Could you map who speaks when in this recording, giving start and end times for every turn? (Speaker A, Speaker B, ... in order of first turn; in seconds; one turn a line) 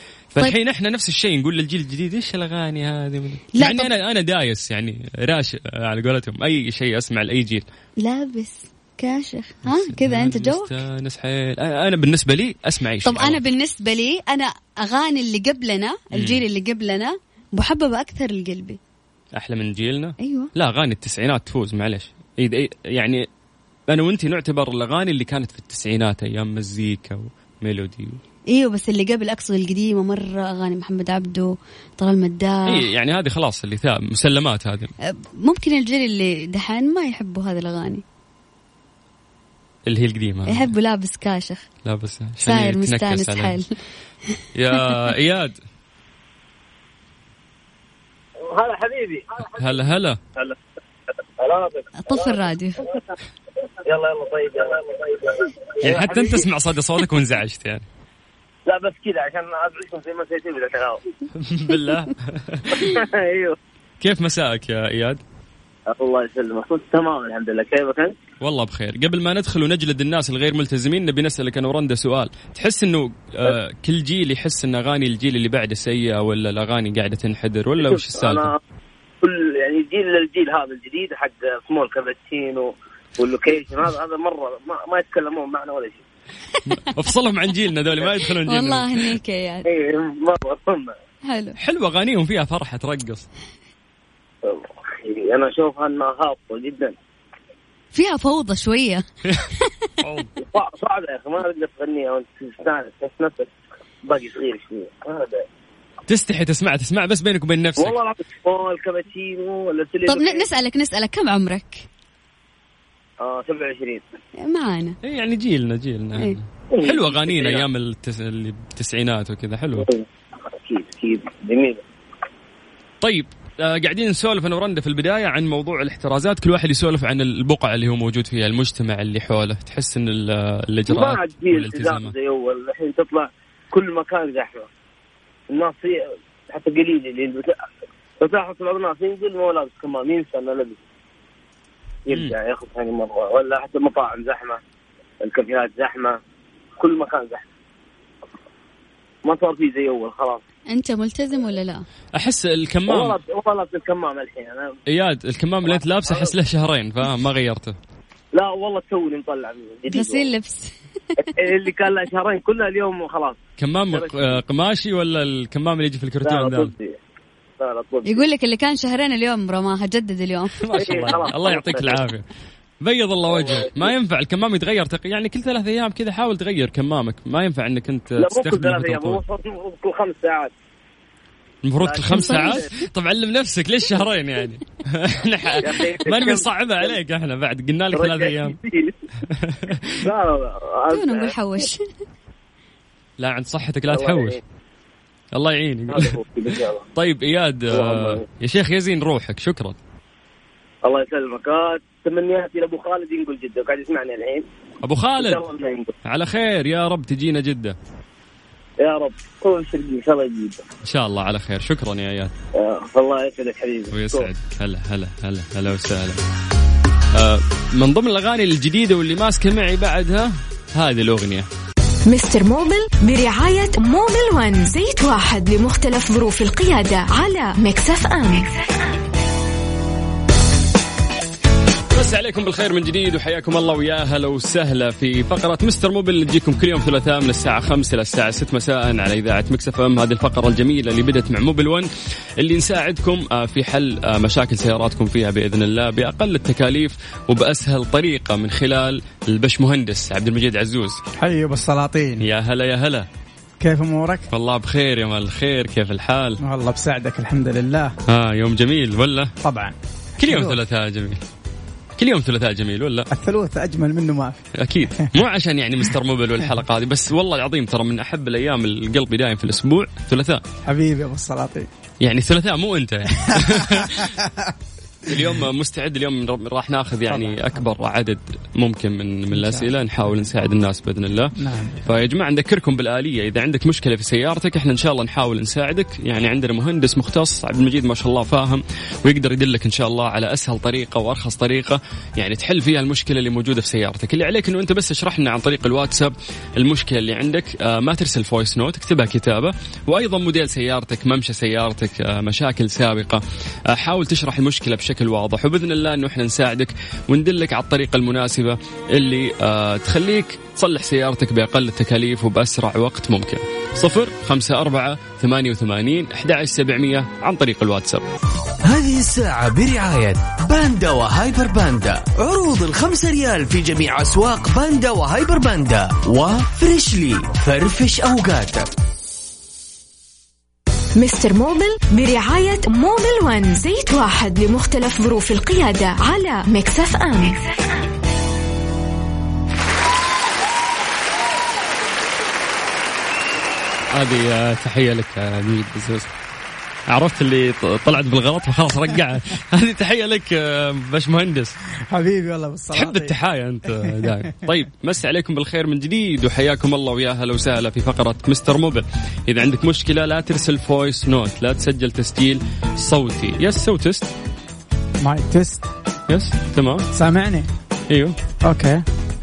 Speaker A: 0.3-7.6
Speaker B: 3.5-3.9
Speaker B: 8.0-10.7
Speaker A: 9.6-13.4
Speaker B: 13.0-18.8
Speaker A: 16.1-16.4
Speaker A: 19.3-23.3
Speaker B: 20.2-20.5
Speaker A: 23.9-28.2
Speaker B: 28.5-32.8
Speaker A: 32.7-34.9
Speaker B: 35.1-38.0
Speaker A: 39.9-40.7
Speaker B: 40.5-41.7
Speaker A: 41.8-43.5
Speaker B: 42.4-43.7
Speaker B: 44.3-44.9
Speaker A: 44.5-45.6
Speaker C: 48.4-49.5
Speaker A: 49.5-50.2
Speaker C: 51.4-52.2
Speaker B: 52.0-52.9
Speaker C: 53.8-56.4
Speaker A: 55.8-57.9
Speaker C: 58.6-61.0
Speaker A: 61.4-62.9
Speaker C: 62.7-63.6
Speaker A: 64.0-65.2
Speaker C: 65.9-68.2
Speaker A: 68.4-78.5
Speaker C: 77.8-78.5
Speaker C: 79.2-86.0
Speaker A: 86.7-89.1
Speaker B: 88.4-89.7
Speaker C: 89.7-90.9
Speaker B: 91.2-91.6
Speaker A: 91.6-93.3
Speaker C: 94.4-97.0
Speaker B: 97.9-99.0
Speaker A: 100.0-100.3
Speaker C: 100.4-103.5
Speaker C: 104.0-105.5
Speaker A: 106.1-108.0
Speaker C: 107.8-110.5
Speaker B: 110.0-111.8
Speaker C: 113.2-114.0
Speaker B: 114.4-115.0
Speaker A: 115.0-119.9
Speaker C: 116.7-117.6
Speaker C: 119.8-121.8
Speaker A: 123.0-132.1
Speaker C: 130.9-134.7
Speaker C: 135.5-137.7
Speaker C: 138.2-140.8
Speaker C: 142.1-144.6
Speaker A: 142.1-142.3
Speaker C: 145.2-146.2
Speaker C: 146.8-147.4
Speaker C: 149.2-150.4
Speaker B: 150.7-151.8
Speaker A: 152.1-153.2
Speaker C: 152.9-154.7
Speaker A: 154.9-157.7
Speaker C: 155.6-156.3
Speaker C: 158.3-160.3
Speaker B: 159.9-160.7
Speaker C: 161.2-163.4
Speaker A: 163.6-166.7
Speaker C: 163.9-164.4
Speaker C: 166.2-167.0
Speaker C: 167.6-168.2
Speaker B: 168.1-171.0
Speaker A: 170.6-172.2
Speaker C: 170.7-172.0
Speaker A: 172.8-179.2
Speaker C: 173.3-173.9
Speaker C: 178.2-180.5
Speaker A: 181.6-188.6
Speaker C: 181.8-182.7
Speaker B: 182.1-182.7
Speaker C: 185.6-187.0
Speaker C: 187.9-188.9
Speaker A: 189.3-190.1
Speaker C: 189.9-191.3
Speaker B: 190.9-191.9
Speaker A: 193.2-194.4
Speaker C: 193.9-194.4
Speaker A: 195.3-196.1
Speaker C: 195.9-196.8
Speaker A: 196.9-199.8
Speaker C: 197.7-198.2
Speaker C: 200.8-204.4
Speaker A: 204.8-205.4
Speaker C: 205.2-205.9
Speaker A: 206.0-207.8
Speaker C: 208.8-210.6
Speaker A: 210.8-212.3
Speaker C: 212.6-214.3
Speaker A: 213.9-216.2
Speaker A: 217.1-221.5
Speaker D: 222.1-228.6
Speaker A: 231.9-251.0
Speaker E: 251.2-252.2
Speaker A: 252.2-253.1
Speaker E: 253.6-254.3
Speaker A: 254.3-256.4
Speaker E: 256.4-257.9
Speaker A: 258.1-259.3
Speaker E: 259.4-260.6
Speaker A: 260.2-261.2
Speaker A: 262.0-263.1
Speaker E: 263.1-264.4
Speaker A: 264.6-270.4
Speaker E: 270.6-271.7
Speaker A: 272.0-274.1
Speaker E: 273.2-274.5
Speaker A: 275.1-281.3
Speaker E: 277.1-277.5
Speaker E: 279.3-279.7
Speaker E: 281.4-281.9
Speaker A: 281.8-318.0
Speaker F: 318.6-328.7
Speaker D: 330.9-337.4
Speaker A: 343.9-346.1
Speaker A: 346.9-351.6
Speaker E: 351.9-353.1
Speaker A: 352.7-364.1
Speaker E: 353.7-354.2
Speaker E: 365.0-365.7
Speaker A: 366.1-366.9
Speaker E: 366.9-367.5
Speaker A: 367.9-368.1
Speaker E: 368.4-368.8